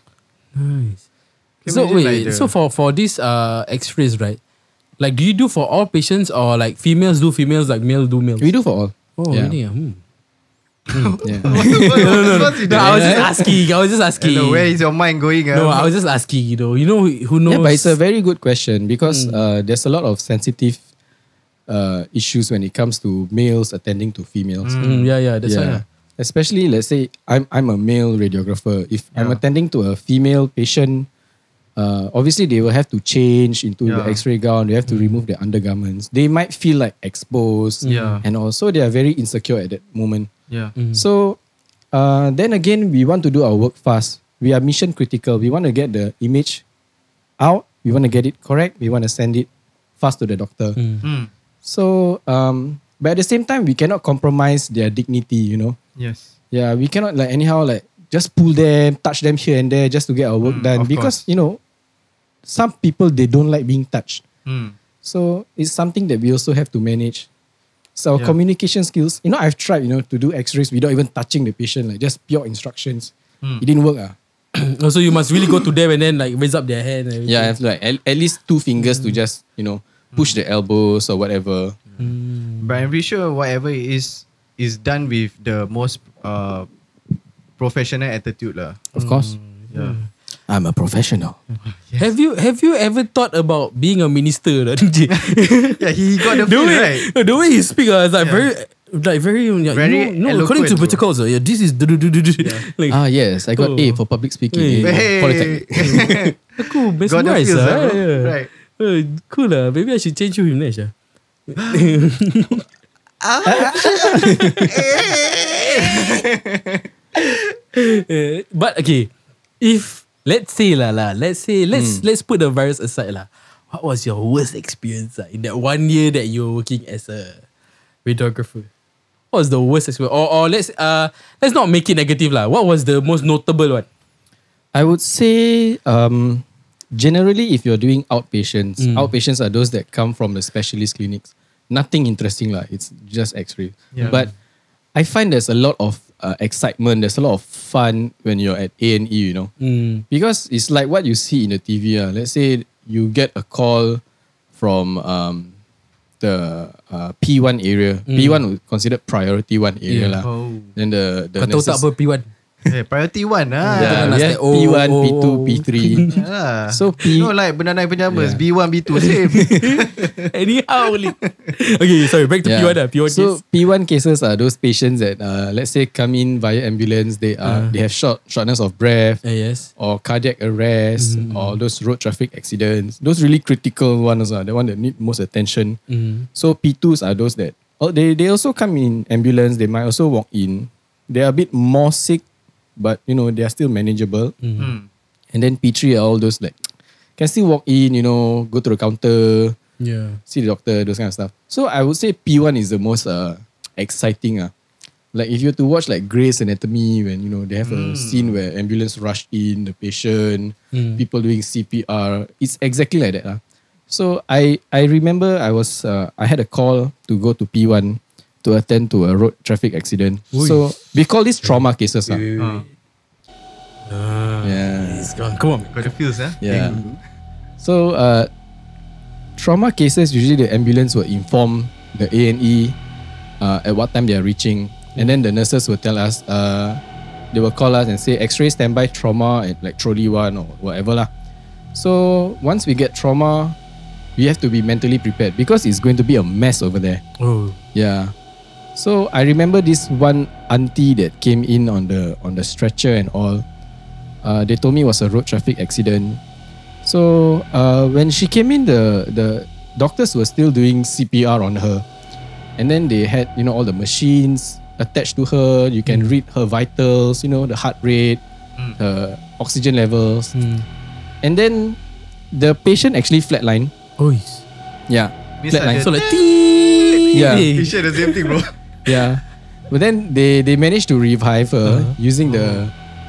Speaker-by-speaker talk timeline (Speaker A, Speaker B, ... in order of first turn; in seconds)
Speaker A: 0.5-1.0, 1.6-4.4, 5.0-8.5, 9.2-10.0, 10.9-14.7, 15.5-18.0, 19.1-19.4, 24.8-25.8, 34.9-35.2, 37.8-38.2, 40.8-41.0, 50.8-51.0, 74.5-77.5, 78.8-79.1, 82.0-82.8, 89.5-90.1, 92.0-103.0, 103.5-104.0, 104.5-105.1, 105.8-110.9, 111.5-112.6, 113.6-114.7, 117.2-119.1, 119.6-127.4, 128.0-128.7, 129.3-133.9, 138.8-139.1, 144.0-144.2, 149.6-150.0, 158.1-158.4, 159.9-160.2, 161.4-162.2, 163.6-166.2, 168.9-173.3, 177.4-177.7, 179.2-179.7, 181.0-181.6, 185.9-186.3, 194.4-194.7, 199.8-200.2, 210.7-211.0, 220.3-220.6, 221.4-222.7, 223.9-225.9, 226.4-226.8, 247.2-247.6, 265.9-266.1, 270.3-270.6, 274.0-274.4, 275.7-278.4, 281.6-282.6
Speaker B: 1.6-2.5, 10.9-13.5, 14.2-15.9, 24.6-25.1, 33.8-34.2, 37.9-38.2, 40.5-40.8, 51.0-51.3, 56.0-56.3, 60.4-61.2, 64.5-64.8, 82.6-86.7, 87.6-90.0, 91.7-92.1, 95.1-97.1, 98.2-98.5, 99.7-101.0, 102.4-102.7, 104.8-106.3, 107.1-108.5, 111.6-111.9, 113.2-117.2, 143.9-144.2, 160.2-160.7, 162.7-164.3, 166.1-170.3, 171.0-171.5, 194.6-194.9, 207.7-208.3, 222.4-222.7, 225.7-226.8, 275.4-278.5
Speaker C: 8.4-9.6, 11.2-13.5, 17.4-20.8, 21.7-24.7, 25.4-31.1, 31.8-40.3, 40.9-41.4, 41.9-46.6, 47.4-49.5, 50.0-50.8, 51.6-55.8, 56.5-61.6, 62.5-64.2, 65.0-67.3, 68.0-74.1, 77.2-81.8, 88.9-89.3, 90.5-91.4, 102.9-106.2, 113.5-114.7, 121.7-122.0, 134.7-144.3, 144.9-149.5, 150.1-154.0, 154.6-155.5, 156.2-161.8, 163.7-166.1, 166.7-167.3, 168.1-168.4, 172.4-179.2, 179.8-185.8, 186.3-192.2, 192.8-194.3, 195.3-196.5, 197.2-199.6, 200.3-204.5, 205.1-222.2, 224.4-225.1, 226.4-227.0, 227.6-228.3, 229.4-232.8, 233.4-236.8, 237.3-241.1, 241.7-243.6, 244.2-247.0, 247.7-248.1, 248.8-253.4, 254.2-256.2, 256.8-261.8, 262.6-268.2, 268.8-270.3, 271.2-271.8, 272.3-273.7, 274.9-275.9, 277.1-277.5, 278.9-282.7